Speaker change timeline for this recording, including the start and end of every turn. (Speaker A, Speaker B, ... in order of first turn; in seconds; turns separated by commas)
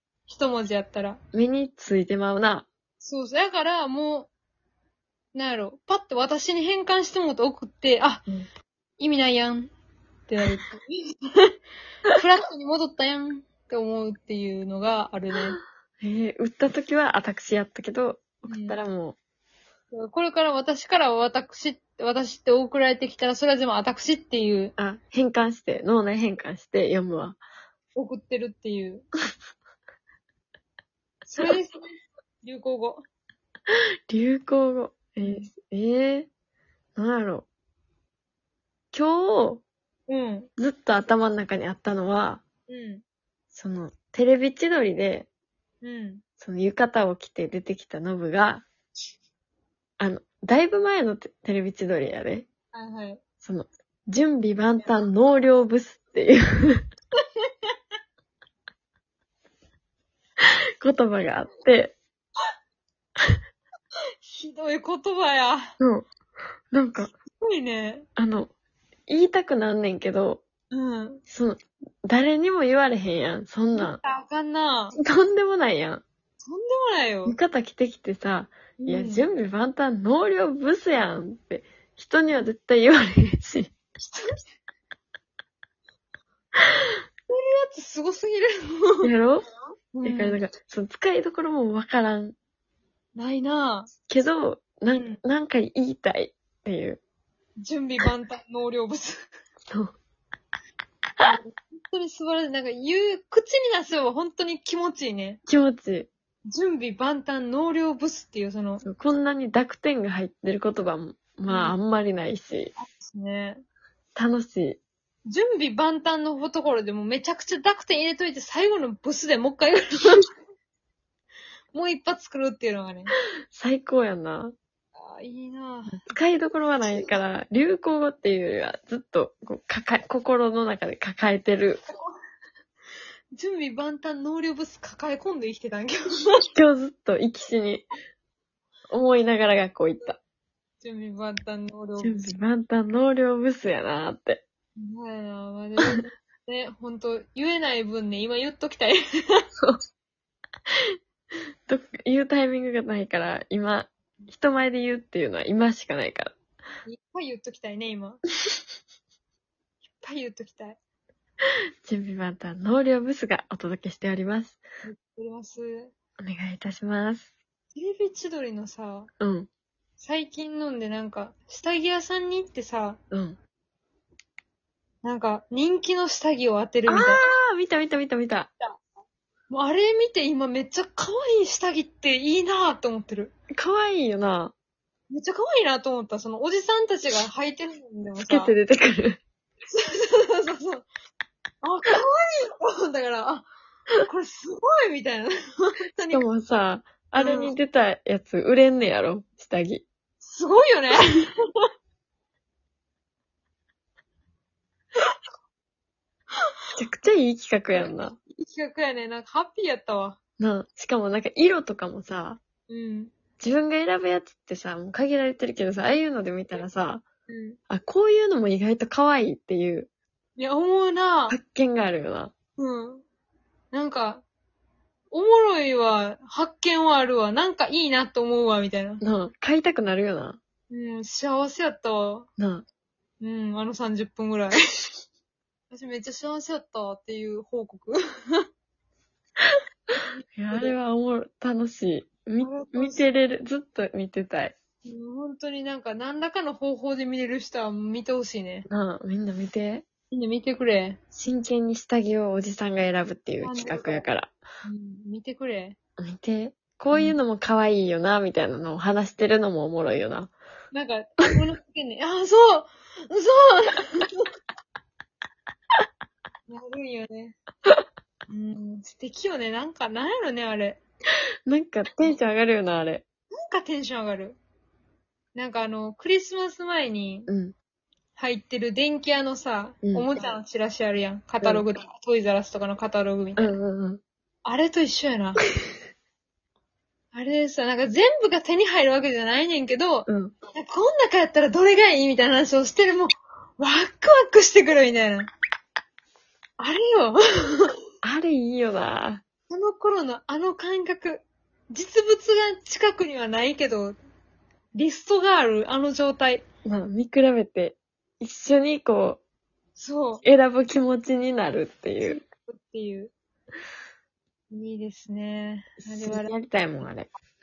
Speaker A: 0.3-1.2, Speaker B: 1.3-2.7, Speaker A: 3.0-4.3, Speaker A: 5.3-8.2, Speaker A: 9.0-9.7, Speaker A: 10.3-11.6, Speaker A: 12.1-15.6, Speaker B: 16.0-19.2, Speaker A: 18.5-18.8, Speaker A: 19.9-24.7, Speaker B: 24.8-27.4, Speaker A: 27.9-29.0, Speaker A: 31.3-31.8, Speaker A: 32.4-33.0, Speaker B: 34.1-36.3, Speaker A: 35.2-35.5, Speaker B: 37.0-37.5, Speaker B: 38.9-39.6, Speaker A: 40.1-40.5, Speaker B: 40.6-42.4, Speaker A: 42.7-43.0, Speaker B: 43.5-45.3, Speaker A: 45.8-46.2, Speaker B: 46.4-48.6, Speaker B: 50.0-52.5, Speaker A: 52.7-53.2, Speaker B: 53.4-56.8, Speaker A: 57.4-57.7, Speaker B: 60.4-62.0, Speaker A: 64.2-65.7, Speaker B: 65.8-66.1, Speaker B: 66.7-67.1, Speaker A: 67.4-68.0, Speaker B: 68.2-68.5, Speaker B: 69.1-70.4, Speaker A: 70.7-71.2, Speaker B: 71.3-74.0, Speaker A: 73.7-75.0, Speaker B: 74.9-76.0, Speaker A: 76.4-77.3, Speaker B: 77.2-83.7, Speaker A: 78.8-79.2, Speaker A: 84.0-84.4, Speaker A: 87.3-89.1, Speaker B: 89.0-89.4, Speaker A: 89.9-90.4, Speaker B: 90.0-92.3, Speaker A: 93.1-93.9, Speaker B: 94.1-97.0, Speaker A: 94.9-95.2, Speaker A: 97.6-99.3, Speaker B: 99.7-100.0, Speaker A: 101.2-105.4, Speaker B: 105.5-106.1, Speaker A: 106.5-108.8, Speaker B: 108.8-112.7, Speaker A: 111.5-111.8, Speaker A: 112.8-113.6, Speaker B: 114.1-114.8, Speaker A: 115.3-120.2, Speaker A: 121.7-123.1, Speaker B: 123.5-124.5, Speaker A: 124.9-126.0, Speaker B: 125.9-131.8, Speaker A: 133.3-136.4, Speaker B: 136.5-137.8, Speaker B: 138.9-140.2, Speaker A: 140.8-142.2, Speaker B: 142.0-144.4, Speaker A: 144.8-149.4, Speaker B: 151.7-156.3, Speaker A: 156.8-158.2, Speaker A: 160.0-160.8, Speaker B: 161.8-164.6, Speaker A: 164.8-165.9, Speaker B: 166.2-167.3, Speaker A: 167.7-169.1, Speaker B: 169.2-169.5, Speaker A: 170.0-173.0, Speaker B: 173.1-173.4, Speaker A: 175.0-177.3, Speaker B: 176.9-178.5, Speaker A: 179.5-183.3, Speaker B: 183.5-184.5, Speaker A: 185.1-188.5, Speaker B: 188.2-189.2, Speaker A: 189.7-190.8, Speaker A: 191.6-193.5, Speaker A: 194.0-196.2, Speaker B: 196.1-199.8, Speaker A: 197.2-197.5, Speaker A: 200.2-201.7, Speaker B: 206.8-208.2, Speaker A: 207.7-210.2, Speaker B: 210.4-212.4, Speaker A: 212.7-213.1, Speaker B: 213.4-217.0, Speaker A: 217.3-217.6, Speaker B: 217.7-219.9, Speaker A: 220.4-221.4, Speaker B: 221.3-222.3, Speaker A: 222.6-223.0, Speaker A: 223.7-224.2, Speaker A: 225.1-229.0, Speaker B: 229.0-230.4, Speaker A: 230.7-232.3, Speaker B: 232.4-232.6, Speaker A: 233.2-234.6, Speaker A: 235.7-238.4, Speaker A: 240.1-240.7, Speaker B: 240.4-244.6, Speaker A: 242.4-243.1, Speaker A: 244.8-248.7, Speaker B: 248.7-249.8, Speaker A: 250.1-251.0, Speaker B: 251.1-254.3, Speaker A: 253.4-254.0, Speaker A: 254.6-255.8, Speaker B: 256.0-260.3, Speaker A: 256.9-257.2, Speaker A: 260.7-264.3, Speaker A: 266.5-267.4, Speaker A: 268.3-270.8, Speaker B: 271.4-273.0, Speaker A: 273.3-274.4, Speaker A: 275.3-277.3, Speaker B: 277.3-277.5, Speaker A: 278.1-283.6, Speaker B: 279.8-280.1, Speaker B: 283.4-284.0, Speaker A: 284.4-285.4, Speaker A: 287.1-295.3, Speaker B: 290.1-290.3, Speaker A: 296.6-297.7, Speaker B: 298.0-299.2, Speaker A: 299.5-304.0, Speaker A: 304.7-306.4, Speaker B: 306.6-309.2, Speaker A: 309.8-310.2, Speaker B: 310.2-312.2, Speaker A: 312.0-313.1, Speaker A: 314.5-316.3, Speaker B: 315.8-317.1